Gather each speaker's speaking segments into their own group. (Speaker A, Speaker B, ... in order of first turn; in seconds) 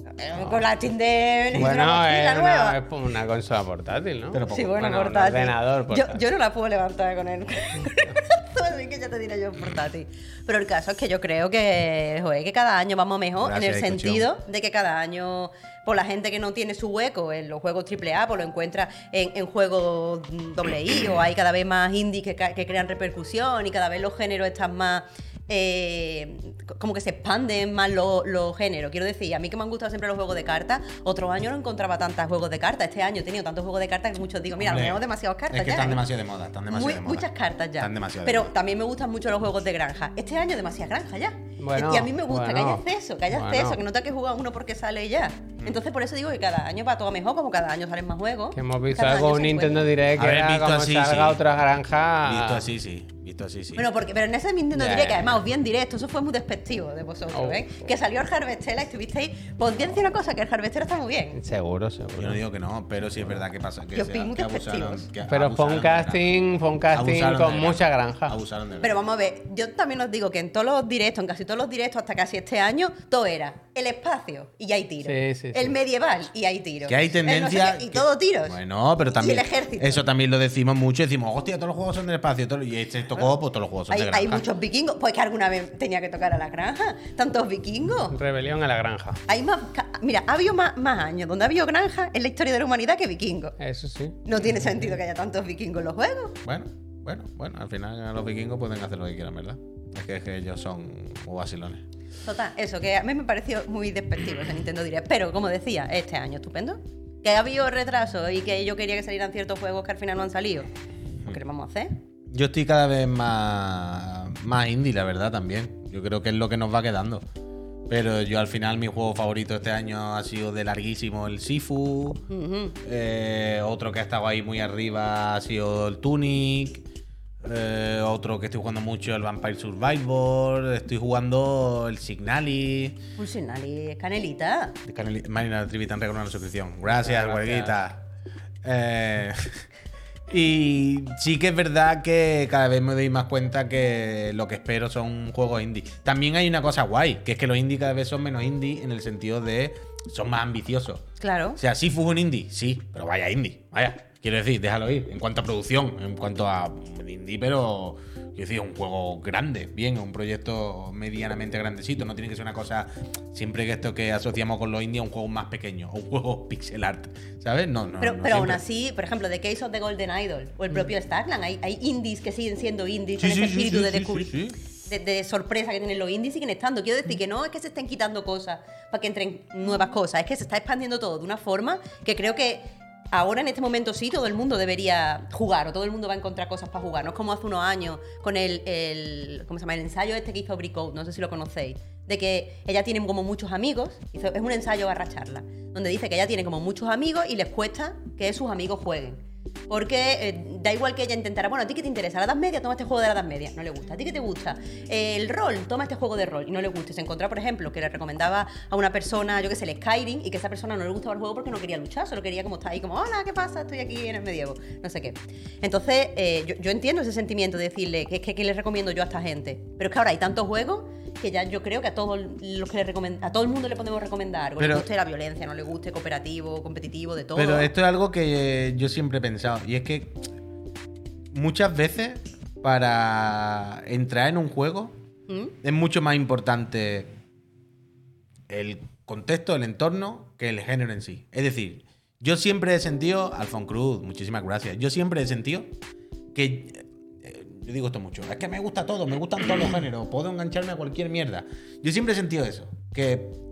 Speaker A: 0.1-2.8, 4.5-36.0, 36.7-49.9, 53.8-61.4, 63.9-65.1, 68.8-78.6, 79.2-80.0, 83.9-88.2, 89.3-93.5, 94.2-96.3, 102.2-110.7, 111.2-112.0, 122.3-122.8, 133.2-134.8, 151.2-151.6, 168.0-227.7, 235.3-235.5
Speaker B: 1.5-6.2, 41.6-43.8, 48.5-52.7, 54.7-55.4, 57.3-57.6, 61.3-62.4, 65.3-68.3, 75.0-75.7, 88.1-89.2, 93.6-94.2, 136.9-137.8
Speaker C: 4.3-5.2, 13.4-14.3, 34.6-37.3, 37.8-38.5, 50.1-51.4, 52.2-53.9, 62.2-66.3, 66.9-69.0, 76.8-84.5, 96.4-101.8, 112.3-117.2, 117.9-122.2, 122.8-126.8, 127.4-133.0, 134.8-138.0, 138.6-139.6, 140.3-151.0, 151.6-168.6, 173.2-174.6, 224.6-224.8, 227.3-230.2, 231.3-234.9, 235.6-237.1, 238.5-245.7, 246.3-253.3